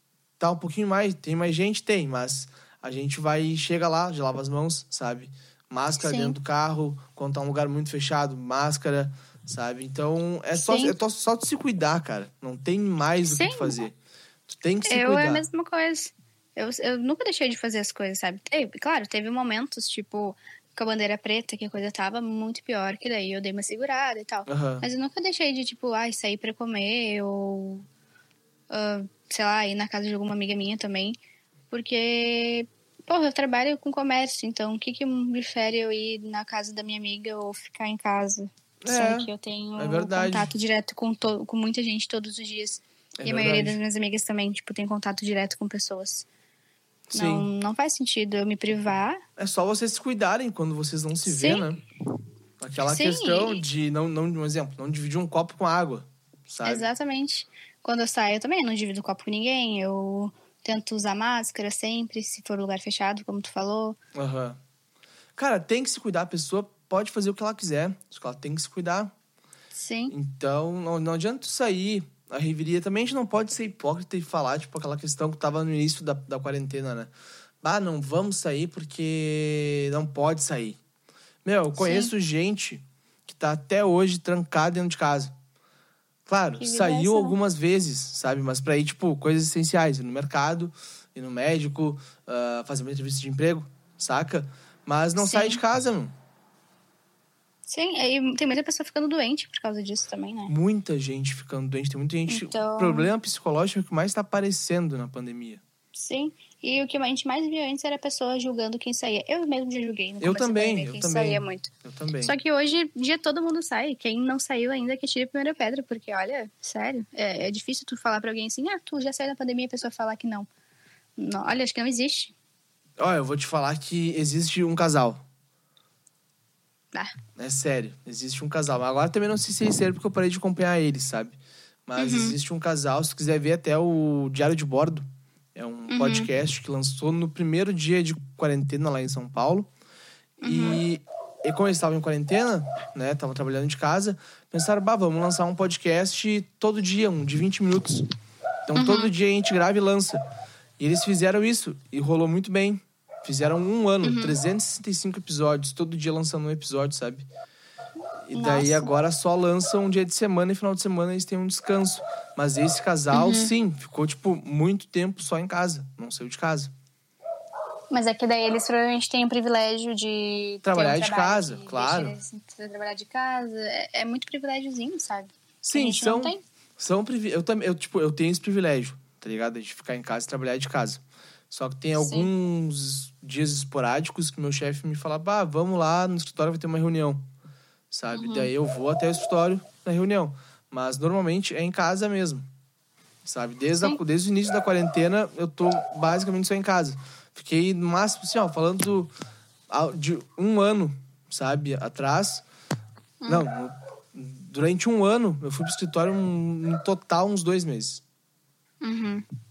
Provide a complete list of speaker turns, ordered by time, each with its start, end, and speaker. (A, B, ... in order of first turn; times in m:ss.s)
0:00.4-0:14.0 A
0:06.0-0:06.4 B
0:10.5-0:11.0 B
0:13.2-0:13.8 B
0:14.5-0:15.4 A
0:14.9-0:27.9 B
0:24.5-0:24.9 A
0:28.7-0:31.2 B
0:31.7-0:46.3 B
0:38.8-0:40.5 A
0:43.2-0:43.8 A
0:47.1-0:47.5 A
0:47.1-0:49.2 B
0:49.4-0:51.8 A
0:51.2-0:51.7 B
0:52.6-0:56.9 A
0:52.8-0:53.6 B
0:56.6-1:04.0 B
1:04.2-1:04.6 A
1:05.4-1:09.1 A
1:09.7-1:10.1 B
1:10.1-1:17.1 A
1:17.6-1:20.8 A
1:21.4-1:25.3 A
1:21.8-1:22.1 B
1:26.3-1:36.1 A
1:26.6-1:27.4 B
1:35.2-1:35.6 B
1:37.7-1:40.5 B
1:40.5-1:45.6 A
1:42.3-1:43.1 B
1:45.9-1:51.7 B
1:50.2-1:52.4 A
1:52.2-2:00.5 B
2:01.2-2:02.3 B
2:03.0-2:05.2 A
2:07.4-2:19.7 A
2:12.0-2:12.4 B
2:15.9-2:16.3 B
2:20.4-2:20.8 B
2:20.4-2:28.1 A
2:28.7-2:30.2 A
2:28.8-2:29.1 B
2:30.8-2:37.2 A
2:34.0-2:34.4 B
2:38.3-2:46.7 A
2:38.3-2:38.9 B
2:43.1-2:43.5 B
2:47.9-2:56.4 B
2:50.6-2:52.2 A
2:55.6-3:07.2 A
3:02.0-3:02.3 B
3:07.9-3:12.4 A
3:08.1-3:08.5 B
3:13.2-3:19.1 A
3:19.7-3:22.4 A
3:23.2-3:23.5 B
3:23.3-3:28.0 A
3:28.8-3:29.2 B